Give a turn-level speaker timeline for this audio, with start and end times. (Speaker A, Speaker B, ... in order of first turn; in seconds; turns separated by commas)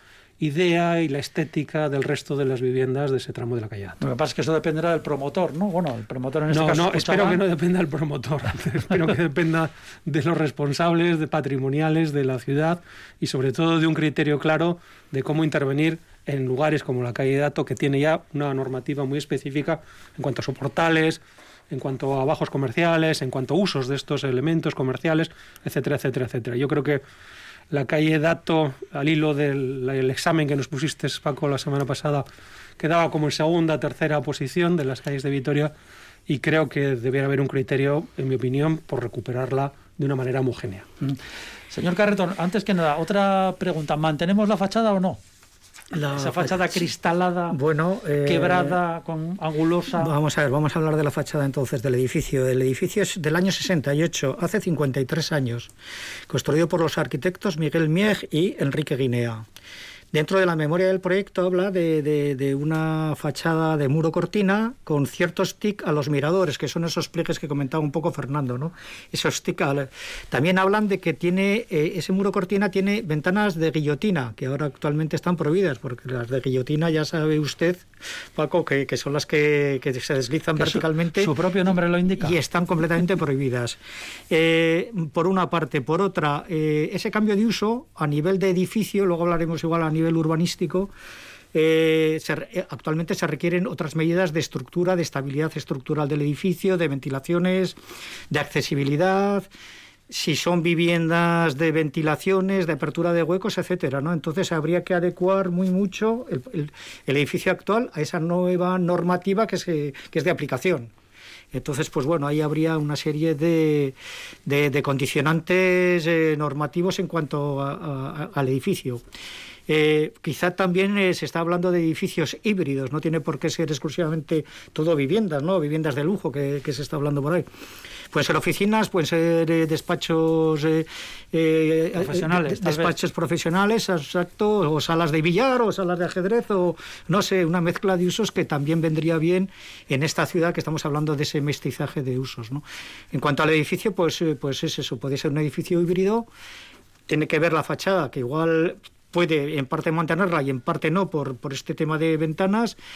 Speaker A: 0.4-4.0, Speaker B: 4.0-7.4, Speaker A: 6.5-27.0, Speaker A: 27.7-32.2, Speaker A: 32.8-35.7, Speaker A: 36.3-40.9, Speaker B: 41.7-45.2, Speaker C: 45.9-46.8, Speaker B: 46.1-47.6, Speaker C: 47.5-48.8, Speaker B: 48.2-50.1, Speaker C: 50.0-55.7, Speaker C: 56.3-59.5, Speaker C: 60.1-81.3, Speaker B: 80.6-82.4, Speaker C: 82.2-90.9, Speaker C: 91.5-97.8, Speaker C: 98.3-99.5, Speaker C: 100.1-110.9, Speaker C: 111.5-119.0, Speaker C: 119.7-127.5, Speaker C: 128.1-146.3, Speaker B: 131.9-132.9, Speaker C: 147.1-152.8